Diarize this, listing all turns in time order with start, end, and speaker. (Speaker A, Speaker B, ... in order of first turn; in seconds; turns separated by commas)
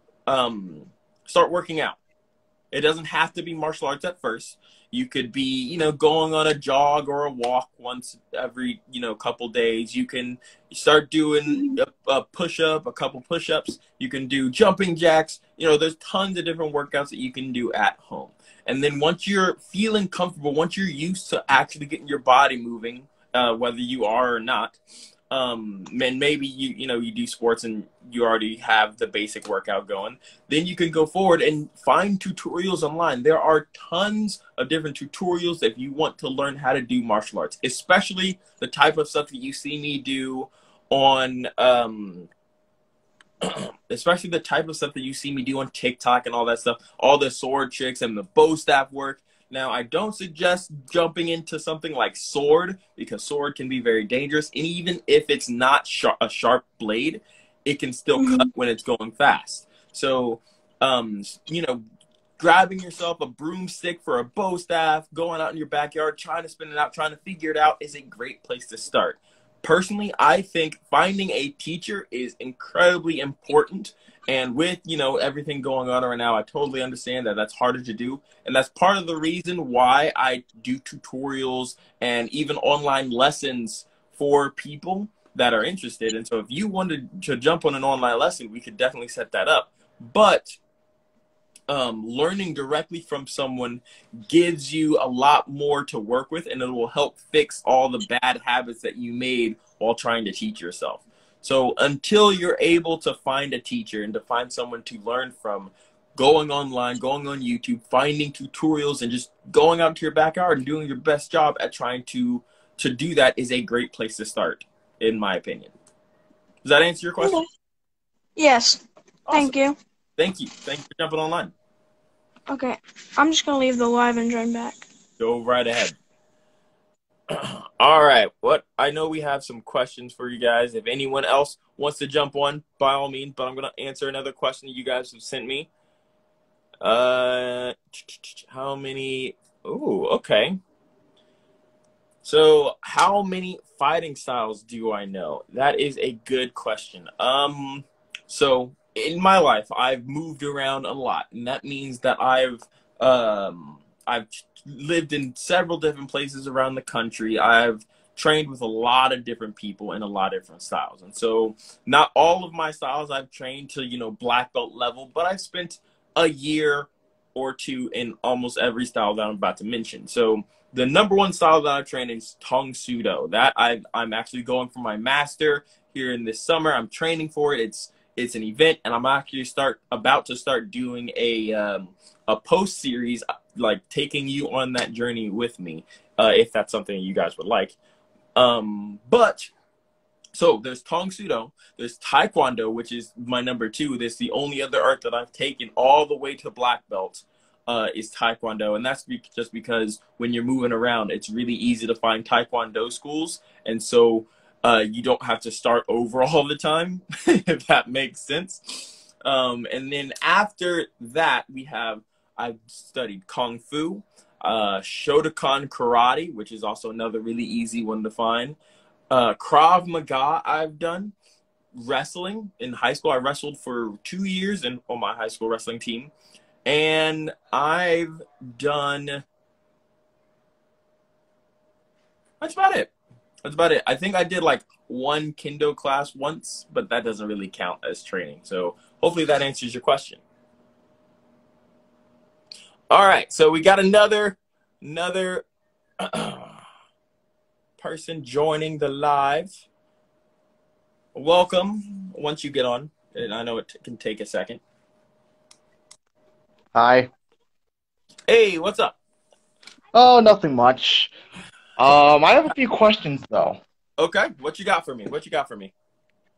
Speaker A: 0.3-2.0, Speaker A: 2.7-24.8, Speaker B: 11.5-11.8, Speaker A: 25.3-42.3, Speaker A: 43.4-61.8, Speaker B: 58.2-58.5, Speaker A: 62.4-90.6, Speaker A: 91.7-115.7, Speaker A: 116.6-117.4, Speaker B: 117.2-117.5, Speaker B: 118.4-119.8, Speaker A: 119.3-119.6, Speaker A: 120.2-121.5, Speaker B: 122.5-124.8, Speaker A: 125.2-126.0, Speaker A: 127.3-135.7, Speaker A: 136.8-140.6, Speaker A: 142.2-187.8, Speaker A: 188.3-189.5, Speaker A: 190.3-218.6, Speaker A: 219.1-221.1, Speaker A: 221.8-226.1, Speaker A: 226.7-229.2, Speaker A: 232.4-232.9, Speaker A: 233.4-240.2, Speaker A: 242.9-245.4, Speaker A: 246.0-246.6, Speaker A: 247.8-249.6, Speaker A: 251.1-254.6, Speaker C: 256.7-257.1, Speaker A: 258.3-259.0, Speaker C: 259.9-261.1, Speaker C: 261.8-263.6, Speaker A: 264.0-265.7